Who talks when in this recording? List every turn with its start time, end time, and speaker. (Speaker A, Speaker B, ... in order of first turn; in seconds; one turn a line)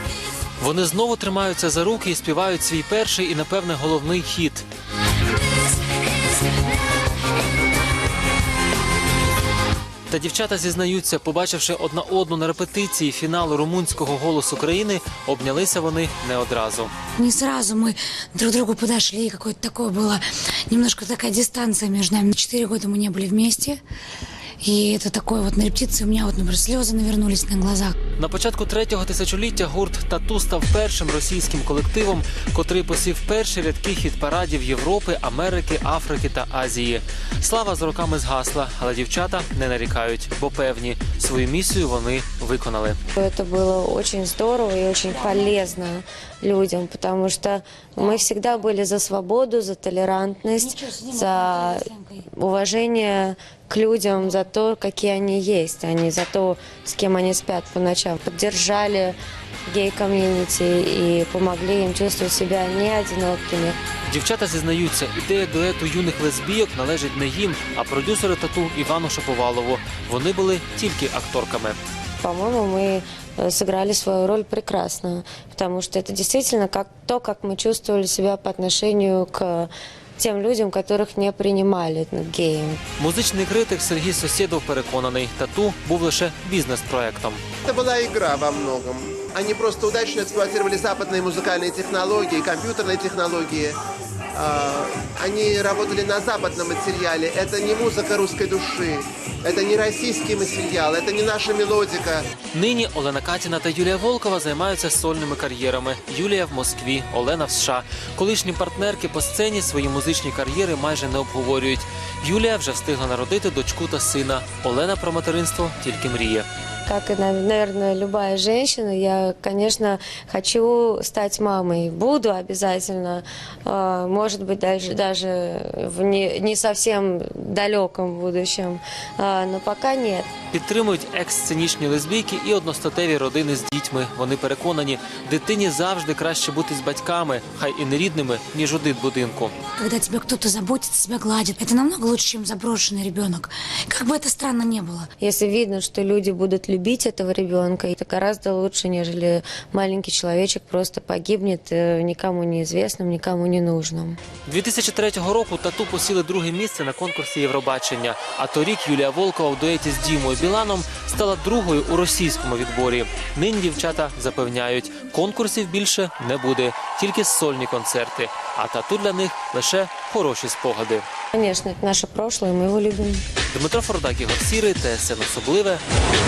Speaker A: 0.6-4.7
Speaker A: 10.1-16.9
Speaker B: 17.2-23.8
Speaker B: 24.6-27.9
Speaker A: 28.2-43.0
Speaker C: 43.1-59.1
Speaker B: 45.1-45.6
Speaker B: 48.0-48.2
Speaker B: 50.6-52.2
Speaker C: 59.6-63.8
Speaker A: 64.1-71.8
Speaker C: 72.2-82.8
Speaker A: 83.0-87.4
Speaker D: 87.6-93.8
Speaker D: 94.3-102.3
Speaker A: 102.5-116.5
Speaker C: 116.8-130.3
Speaker A: 130.5-139.5
Speaker B: 139.8-145.1
Speaker C: 145.2-154.2
Speaker A: 154.5-171.0
Speaker C: 171.3-173.2
Speaker A: 173.5-175.8